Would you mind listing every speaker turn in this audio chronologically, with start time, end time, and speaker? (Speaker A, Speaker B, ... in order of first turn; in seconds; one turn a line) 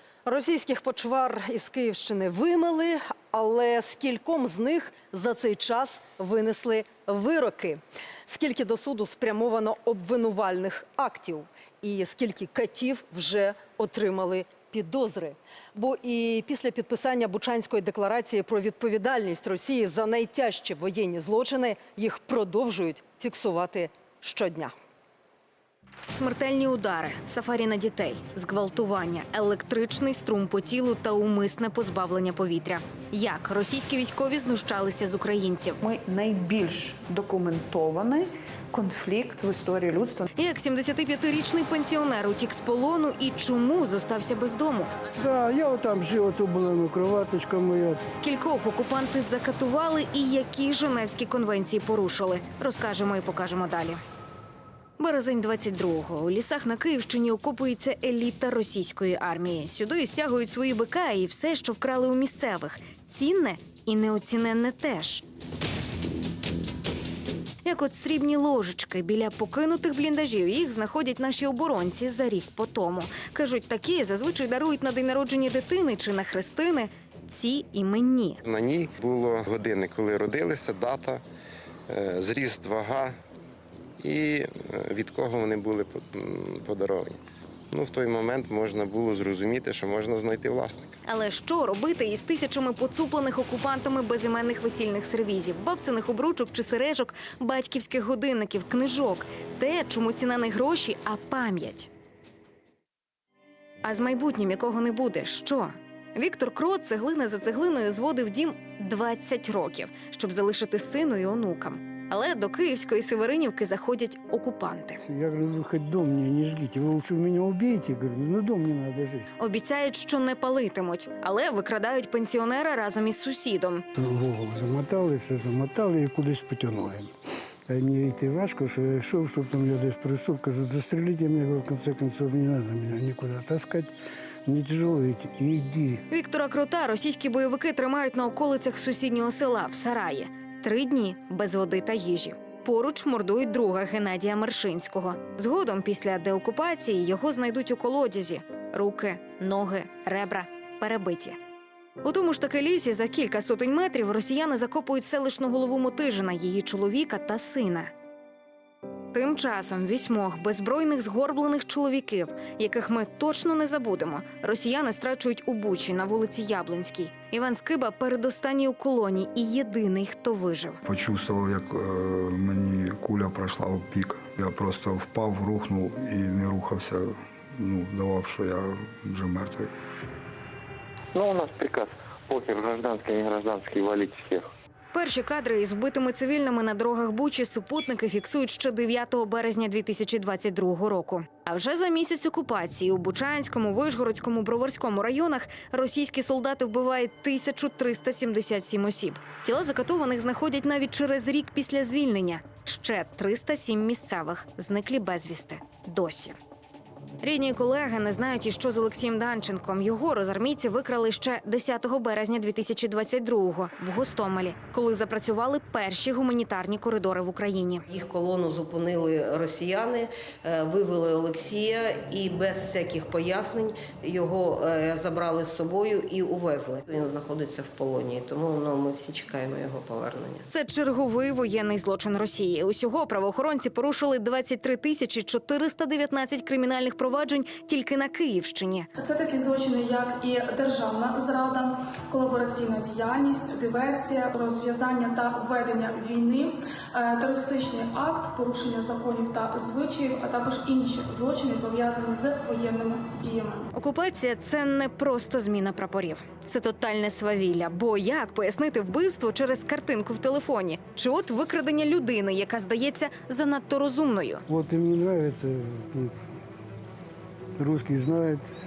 Speaker A: 0.2-24.7
Speaker B: 26.1-35.8
Speaker C: 35.8-40.3
Speaker B: 40.4-44.9
Speaker D: 45.2-48.0
Speaker B: 48.1-54.0
Speaker B: 55.0-65.2
Speaker B: 67.6-78.4
Speaker E: 78.4-81.2
Speaker E: 81.9-83.2
Speaker E: 84.0-87.2
Speaker E: 87.7-91.0
Speaker B: 91.1-101.9
Speaker B: 103.8-115.0
Speaker D: 115.0-119.3
Speaker B: 119.4-123.8
Speaker D: 124.0-127.1
Speaker D: 127.7-133.9
Speaker D: 134.4-136.0
Speaker B: 136.1-151.3
Speaker B: 152.0-157.9
Speaker B: 159.1-170.8
Speaker F: 170.8-179.7
Speaker G: 181.1-184.4
Speaker B: 184.9-206.3
Speaker B: 207.2-217.8
Speaker H: 217.9-230.4
Speaker B: 230.5-238.9
Speaker I: 239.0-253.7
Speaker B: 253.7-264.4
Speaker D: 264.5-266.1
Speaker D: 267.6-268.5